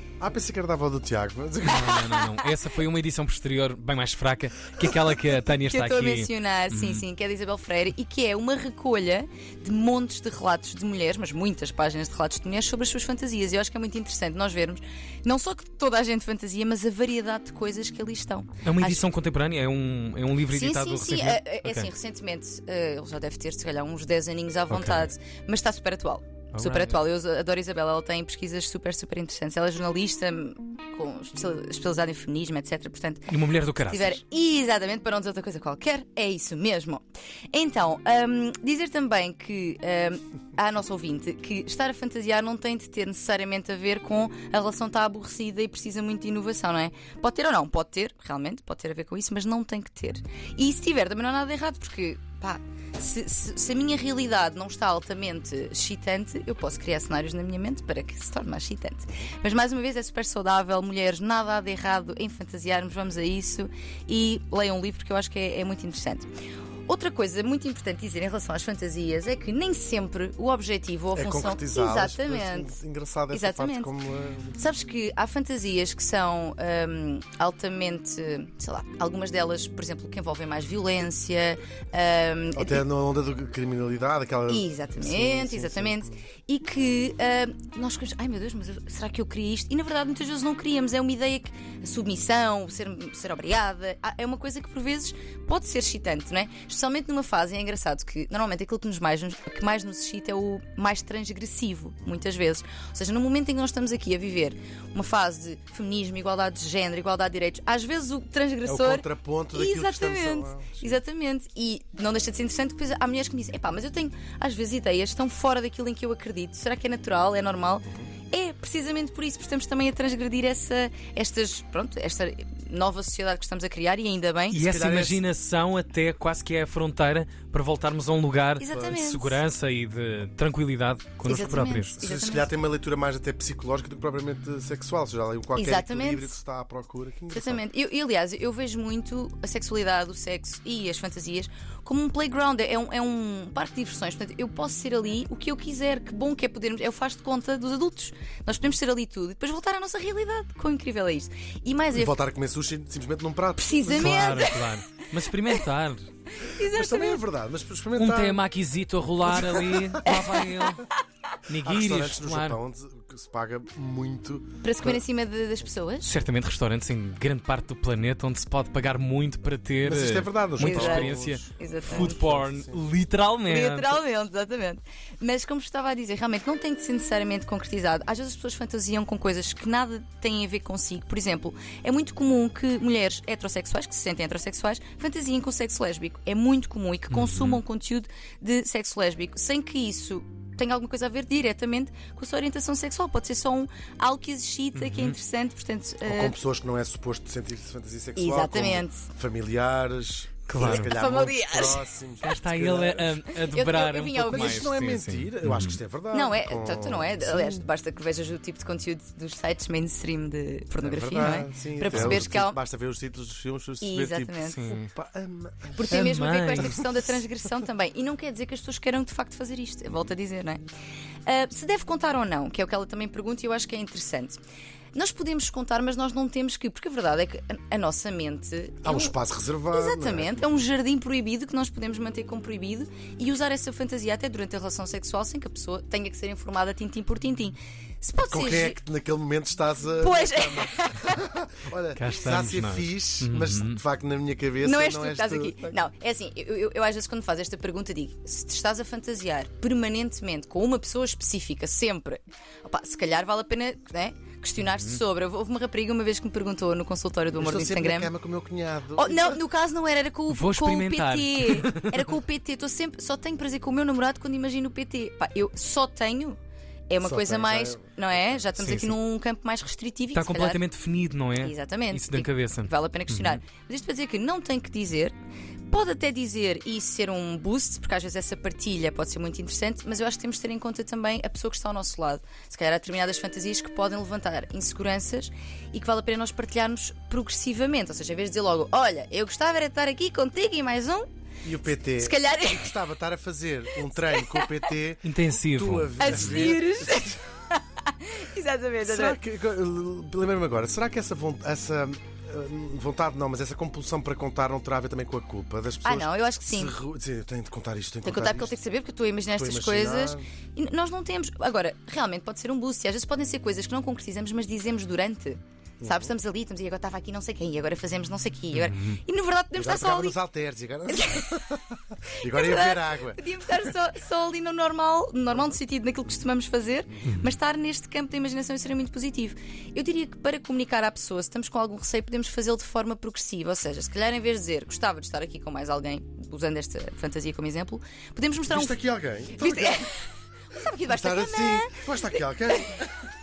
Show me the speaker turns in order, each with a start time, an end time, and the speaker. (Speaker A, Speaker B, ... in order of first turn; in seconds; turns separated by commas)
Speaker A: 0.2-2.2, Speaker B: 1.7-7.0, Speaker C: 5.6-19.1, Speaker B: 18.6-21.9, Speaker C: 20.5-66.3, Speaker B: 24.7-25.1, Speaker B: 26.5-27.0, Speaker B: 33.3-34.2, Speaker C: 66.9-72.7, Speaker A: 71.2-74.6, Speaker C: 73.3-73.9, Speaker C: 74.6-82.8, Speaker A: 82.5-86.2, Speaker C: 84.5-124.6, Speaker A: 108.7-111.0, Speaker B: 124.5-132.0, Speaker A: 124.6-125.2, Speaker C: 128.6-129.4, Speaker C: 131.2-132.5, Speaker A: 132.0-137.6, Speaker C: 135.6-136.4, Speaker C: 137.3-152.2, Speaker A: 151.9-154.4, Speaker C: 153.6-154.7, Speaker B: 153.9-156.1, Speaker C: 156.4-157.2, Speaker A: 156.6-158.4, Speaker B: 158.0-160.9, Speaker A: 159.2-160.2, Speaker C: 160.0-160.6, Speaker B: 161.5-162.6, Speaker A: 161.6-165.0, Speaker C: 164.6-166.1, Speaker B: 166.0-174.0, Speaker A: 169.8-172.9, Speaker C: 170.6-172.2, Speaker C: 173.5-196.4, Speaker B: 187.1-187.6, Speaker B: 194.8-195.2, Speaker A: 196.1-203.2, Speaker C: 198.2-199.1, Speaker B: 200.5-201.0, Speaker C: 200.6-201.8, Speaker B: 202.2-205.8, Speaker C: 203.5-204.7, Speaker A: 204.2-207.7, Speaker C: 206.1-212.6, Speaker A: 210.8-216.8, Speaker B: 211.9-212.3, Speaker C: 213.8-214.6, Speaker B: 214.4-214.9, Speaker C: 215.8-220.6, Speaker B: 215.9-216.8, Speaker C: 221.3-224.4, Speaker C: 224.9-229.2, Speaker A: 228.8-230.5, Speaker C: 229.7-238.8, Speaker A: 238.3-245.8, Speaker C: 240.0-241.3, Speaker B: 242.0-243.8, Speaker C: 244.6-258.1, Speaker B: 254.6-255.0, Speaker A: 257.4-259.4, Speaker C: 259.0-270.6, Speaker B: 260.3-262.1, Speaker A: 267.0-268.4, Speaker B: 268.6-269.0, Speaker B: 270.1-273.4, Speaker C: 271.4-275.1, Speaker C: 275.7-291.1, Speaker A: 291.4-297.2, Speaker C: 291.9-292.8, Speaker C: 294.1-294.6, Speaker B: 295.0-296.5, Speaker C: 296.0-299.2, Speaker A: 298.9-308.6, Speaker C: 305.8-306.8, Speaker C: 308.0-320.2, Speaker A: 309.4-310.2, Speaker A: 315.8-316.1, Speaker B: 318.5-319.0, Speaker A: 319.6-323.2, Speaker C: 320.9-321.6, Speaker C: 322.2-338.8, Speaker A: 338.5-339.9, Speaker C: 339.4-340.0, Speaker C: 340.5-342.8, Speaker A: 340.9-342.9